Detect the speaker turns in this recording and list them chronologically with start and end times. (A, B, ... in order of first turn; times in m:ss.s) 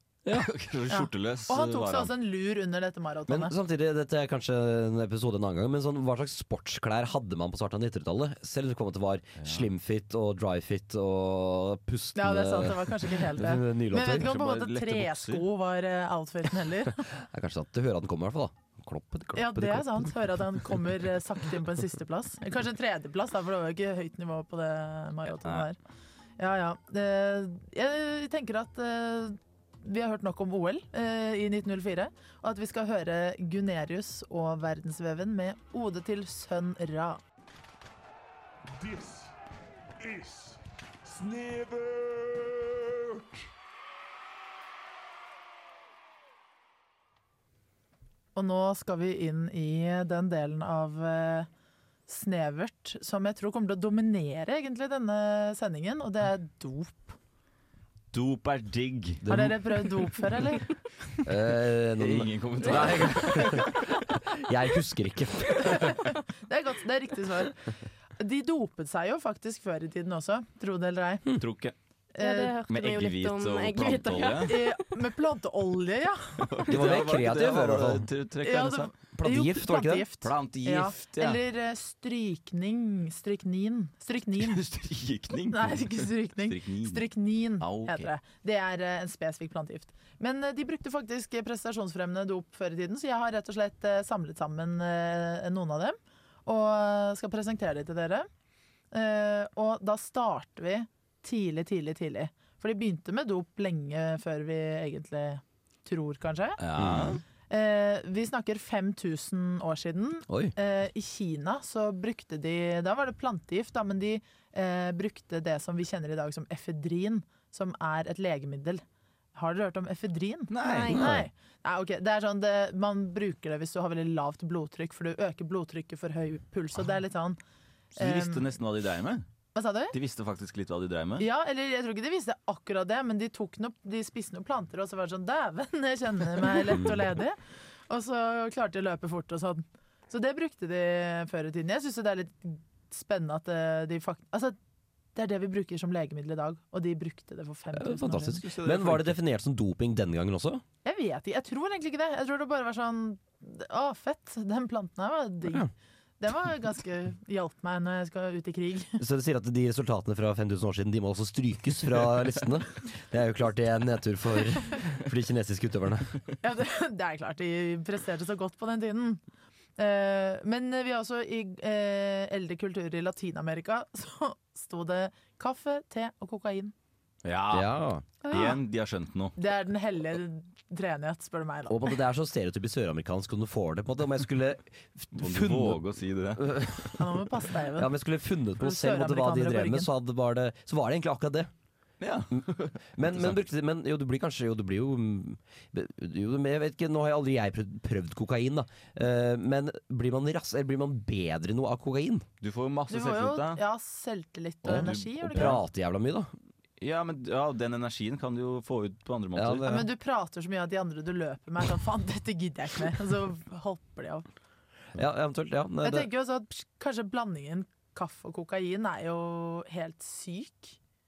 0:00.3-0:02.1 A
0:00.9-0:03.5 B
0:03.3-0:14.3 C
0:09.4-0:09.7 A
0:12.2-0:17.0 B
0:14.1-0:15.4 A
0:17.1-0:20.2 C
0:19.3-0:25.8 B
0:26.4-0:37.2 B
0:38.8-0:39.3 D
0:40.1-0:40.5 D
0:41.1-0:42.7 D
0:48.3-0:51.5 B
0:52.1-0:57.2 B
0:58.1-0:59.3 A
0:59.2-0:59.6 C
0:59.3-1:00.7 B
1:01.2-1:06.1 C
1:02.0-1:04.0 A
1:05.6-1:07.7 B
1:08.2-1:11.3 B
1:11.4-1:11.7 A
1:12.1-1:12.6 B
1:12.2-1:14.8 E
1:12.7-1:14.6 A
1:14.4-1:16.5 B
1:16.4-1:18.9 A
1:16.7-1:18.1 C
1:18.4-1:24.6 B
1:19.1-1:20.1 C
1:20.2-1:21.4 A
1:24.4-1:27.1 A
1:25.5-1:38.3 B
1:27.6-1:28.1 A
1:38.9-1:46.6 B
1:46.6-1:47.2 A
1:46.7-1:47.2 C
1:47.5-1:58.8 B
1:50.3-1:50.5 C
1:59.3-2:07.4 B
2:00.5-2:01.2 A
2:00.6-2:01.0 E
2:00.9-2:01.3 C
2:08.0-2:09.2 A
2:08.0-2:08.4 B
2:09.5-2:09.9 B
2:09.9-2:11.3 A
2:11.2-2:17.4 B
2:17.9-2:24.6 B
2:25.1-2:28.4 B
2:27.7-2:30.6 C
2:28.4-2:29.1 A
2:30.8-2:35.7 B
2:36.2-2:39.0 B
2:39.0-2:46.1 C
2:46.4-2:49.2 B
2:49.8-2:56.7 B
2:57.2-2:57.7 A
2:57.5-2:58.0 C
2:58.2-2:59.4 A
2:58.3-2:58.6 E
2:59.4-3:01.9 B
3:01.7-3:05.8 C
3:05.1-3:06.6 A
3:06.4-3:07.1 C
3:07.0-3:07.9 B
3:07.8-3:11.5 C
3:08.6-3:09.9 B
3:12.0-3:13.4 A
3:12.9-3:22.2 C
3:22.4-3:23.6 A
3:22.9-3:25.6 B
3:24.6-3:25.6 A
3:24.7-3:26.3 C
3:26.8-3:29.8 A
3:29.4-3:29.9 C
3:29.7-3:34.2 B
3:35.0-3:36.1 C
3:35.8-3:40.8 B